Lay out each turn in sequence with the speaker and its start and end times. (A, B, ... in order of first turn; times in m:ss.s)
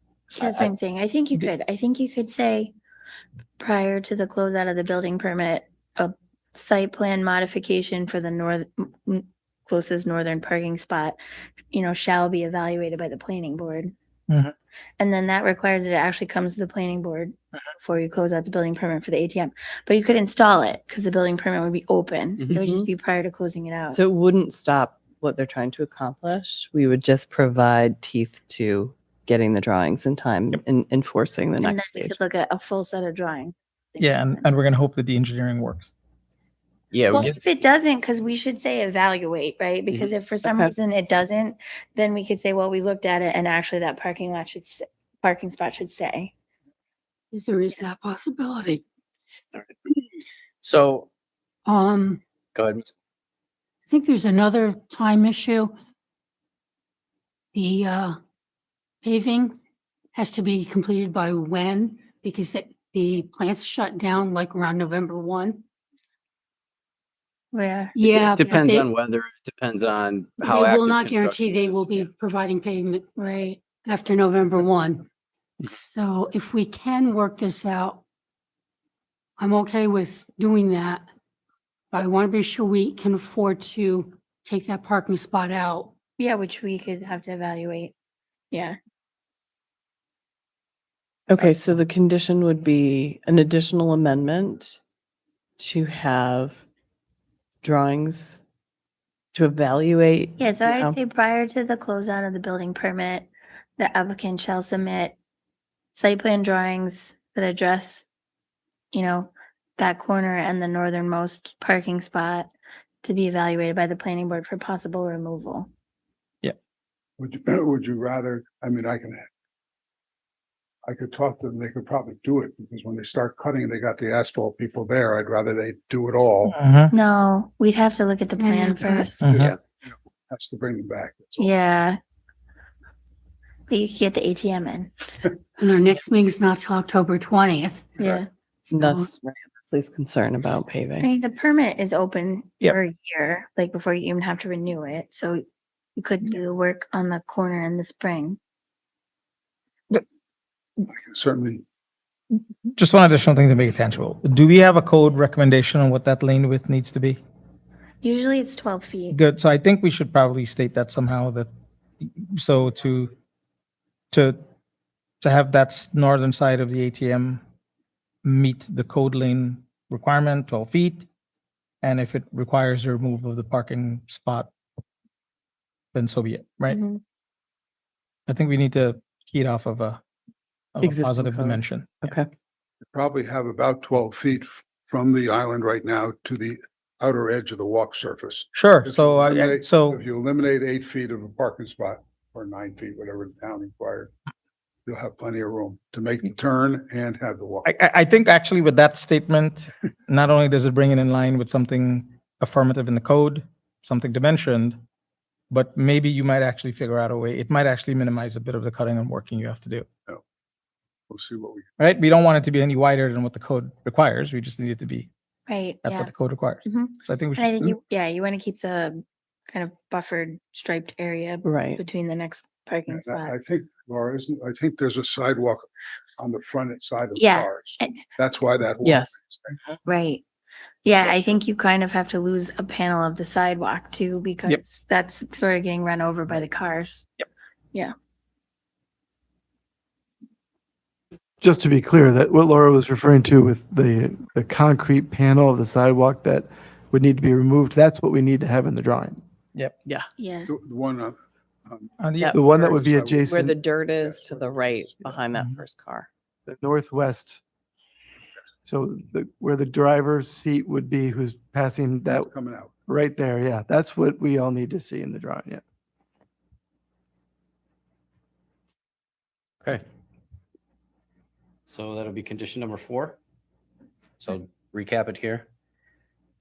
0:00.4-0:02.7 A
0:03.6-0:11.2 A
0:11.7-0:13.9 A
0:15.0-0:24.0 A
0:22.5-0:22.9 B
0:23.9-0:32.1 B
0:31.6-0:34.4 A
0:34.0-0:35.9 C
0:36.9-0:37.4 D
0:37.1-0:46.3 A
0:47.3-0:48.8 E
0:50.6-0:51.1 D
0:51.6-0:52.2 E
0:52.5-0:52.9 D
0:53.9-0:55.7 E
0:57.5-0:58.1 E
0:59.0-0:59.6 E
1:00.1-1:05.6 E
1:07.5-1:08.5 A
1:07.9-1:08.9 E
1:08.1-1:12.1 D
1:10.4-1:13.0 E
1:13.2-1:13.7 A
1:13.7-1:15.1 E
1:15.6-1:18.0 E
1:19.4-1:21.0 E
1:21.9-1:25.9 E
1:26.2-1:27.9 A
1:31.3-1:34.8 B
1:35.6-1:36.6 B
1:37.6-1:38.4 B
1:39.3-1:41.0 B
1:40.4-1:45.2 A
1:45.9-1:48.0 A
1:48.9-1:52.5 A
1:53.0-1:55.7 A
1:57.2-1:59.2 F
2:00.8-2:06.5 F
2:06.4-2:06.9 C
2:06.9-2:09.3 A
2:08.4-2:09.1 E
2:09.2-2:11.5 F
2:09.2-2:09.5 C
2:11.4-2:12.0 A
2:13.7-2:14.9 A
2:15.6-2:18.1 E
2:18.0-2:18.3 A
2:18.7-2:19.1 E
2:18.7-2:21.0 B
2:21.0-2:25.4 A
2:26.0-2:28.4 A
2:30.9-2:31.6 F
2:32.7-2:37.2 C
2:38.0-2:39.2 A
2:39.1-2:41.5 C
2:42.0-2:43.1 C
2:44.1-2:44.4 C
2:45.2-2:47.4 C
2:48.2-2:51.0 C
2:51.8-2:54.5 C
2:55.9-2:56.8 C
2:56.7-2:57.0 A
2:58.3-3:00.0 C
3:00.7-3:02.1 C
3:00.8-3:02.3 B
3:02.8-3:14.1 F
3:08.5-3:10.0 C
3:14.8-3:17.7 F
3:17.6-3:24.8 C
3:25.5-3:29.9 C
3:31.1-3:31.6 F
3:31.8-3:35.1 C
3:35.5-3:36.1 A
3:35.8-3:37.8 C
3:36.6-3:43.3 A
3:41.4-3:41.8 B
3:42.9-3:45.7 F
3:46.2-3:49.6 F
3:47.1-3:48.0 A
3:48.8-3:49.1 B
3:49.8-3:50.2 A
3:50.8-3:57.1 A
4:01.4-4:09.2 G
4:10.2-4:10.5 A
4:10.5-4:15.2 F
4:12.0-4:12.4 C
4:12.3-4:13.5 G
4:13.3-4:16.1 B
4:15.3-4:15.6 C
4:16.4-4:17.4 G
4:18.6-4:22.3 G
4:22.1-4:22.7 F
4:22.9-4:25.6 G
4:31.7-4:33.2 D
4:34.2-4:35.4 D